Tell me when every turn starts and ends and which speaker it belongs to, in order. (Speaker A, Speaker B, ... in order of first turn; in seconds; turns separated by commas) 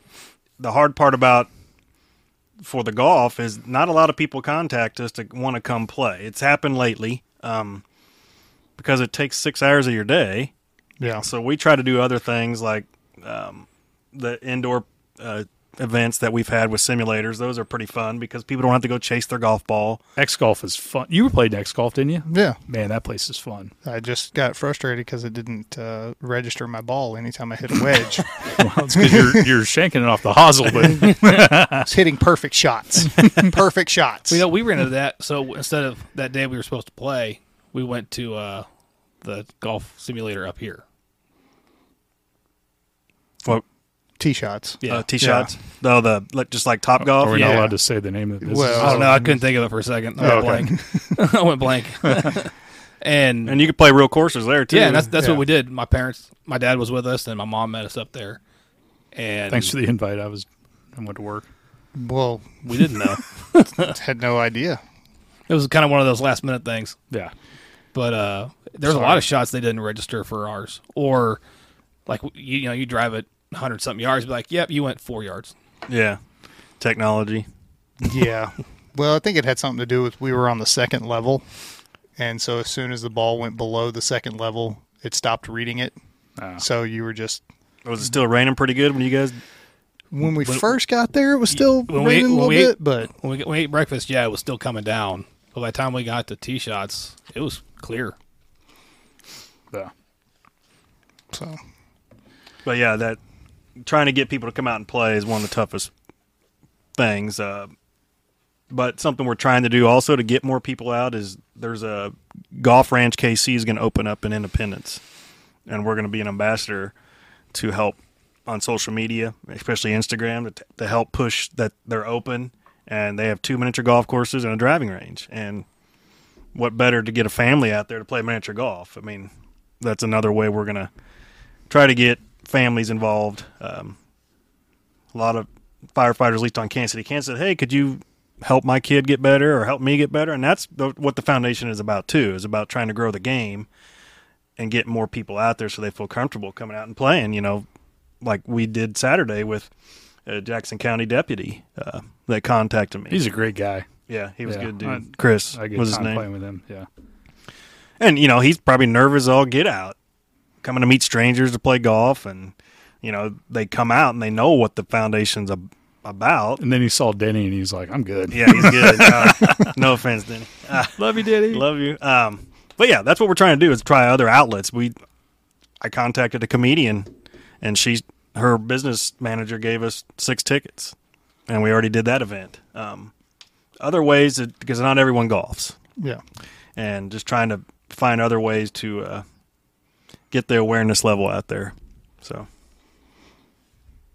Speaker A: 0.6-1.5, Speaker A: 2.6-7.8, Speaker A: 8.8-10.5, Speaker B: 11.0-11.2, Speaker A: 11.2-20.0, Speaker C: 20.1-23.7, Speaker B: 22.3-22.6, Speaker B: 23.8-29.4, Speaker C: 28.5-31.9, Speaker B: 30.9-31.2, Speaker B: 31.8-34.4, Speaker D: 34.3-38.7, Speaker D: 39.2-40.8, Speaker B: 44.2-45.5, Speaker A: 44.9-47.6, Speaker C: 47.1-49.4, Speaker B: 47.4-47.7, Speaker B: 48.4-49.2, Speaker D: 48.8-53.6, Speaker B: 50.2-51.2, Speaker C: 50.2-50.7, Speaker A: 53.4-55.1, Speaker D: 54.7-58.4, Speaker B: 55.1-55.4, Speaker D: 59.1-59.7, Speaker C: 59.5-61.5, Speaker B: 62.0-62.6, Speaker D: 62.6-63.9, Speaker B: 63.8-64.8, Speaker D: 65.5-67.0, Speaker D: 67.9-71.4, Speaker B: 68.9-69.2, Speaker D: 72.1-75.5, Speaker A: 75.9-76.2, Speaker A: 76.8-77.5, Speaker B: 78.0-81.4, Speaker B: 82.2-85.9, Speaker C: 86.4-86.6, Speaker B: 86.6-87.4, Speaker A: 87.8-89.4, Speaker B: 90.1-93.1, Speaker D: 91.9-98.1, Speaker B: 101.3-101.6, Speaker A: 102.6-103.2, Speaker A: 103.8-105.9, Speaker A: 107.0-107.7, Speaker A: 108.7-115.0, Speaker A: 115.7-116.9, Speaker A: 117.5-125.7, Speaker A: 126.5-130.9, Speaker A: 131.7-134.0, Speaker A: 135.1-143.7, Speaker A: 144.6-147.7, Speaker A: 148.2-149.7, Speaker A: 150.2-153.2, Speaker C: 153.1-153.8, Speaker A: 154.1-156.2, Speaker C: 154.4-156.9, Speaker A: 158.0-159.9, Speaker A: 160.6-166.6, Speaker C: 166.6-169.7, Speaker A: 168.3-174.9, Speaker C: 170.9-171.6, Speaker A: 175.8-180.9, Speaker A: 181.5-183.1, Speaker A: 183.8-185.8, Speaker A: 186.8-189.2, Speaker A: 190.3-192.5